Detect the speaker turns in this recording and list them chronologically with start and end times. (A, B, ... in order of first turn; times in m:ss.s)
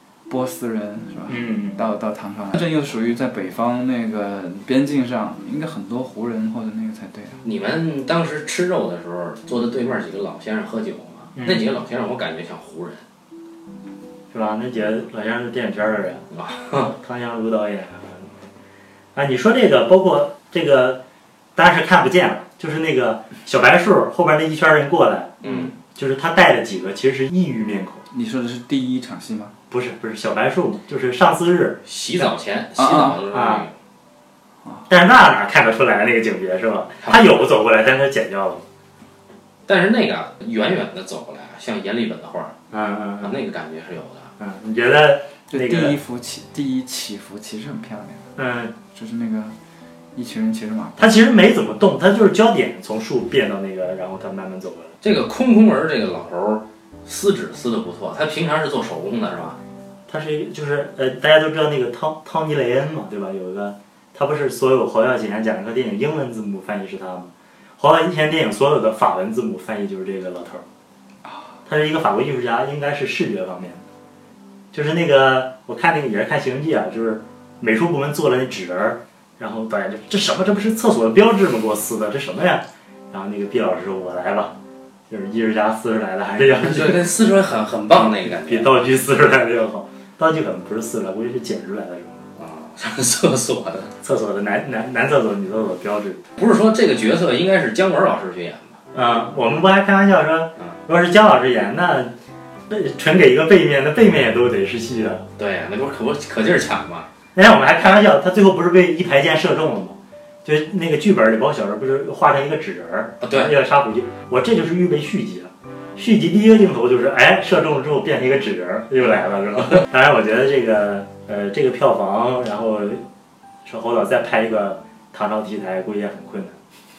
0:00.3-0:07.4 A
0:01.3-0:01.8 B
0:07.4-0:13.0 C
0:11.4-0:11.6 B
0:14.3-0:18.3 B
0:16.3-0:16.9 C
0:19.1-0:21.0 B
0:21.6-0:28.0 B
0:25.4-0:25.7 C
0:28.1-0:29.5 A
0:29.7-0:32.3 B
0:31.9-0:33.7 C
0:32.8-0:33.2 A
0:33.3-0:33.7 B
0:34.9-0:38.6 B
0:37.0-0:37.3 C
0:39.7-0:42.6 C
0:42.7-0:43.4 B
0:43.2-0:44.3 C
0:44.4-0:46.0 B
0:45.5-0:48.3 A
0:48.4-0:48.7 B
0:48.9-0:49.6 A
0:50.1-0:51.1 A
0:51.0-0:55.0 B
0:55.0-0:59.6 C
1:00.1-1:10.6 B
1:11.6-1:13.8 B
1:14.7-1:24.6 B
1:25.1-1:27.1 B
1:26.6-1:28.7 C
1:27.9-1:32.3 B
1:32.4-1:33.9 C
1:34.0-1:36.2 B
1:36.4-1:38.8 C
1:38.9-1:42.1 B
1:42.7-1:45.3 B
1:45.4-1:47.1 C
1:47.3-2:03.0 B
1:53.2-1:53.5 C
2:03.6-2:06.6 B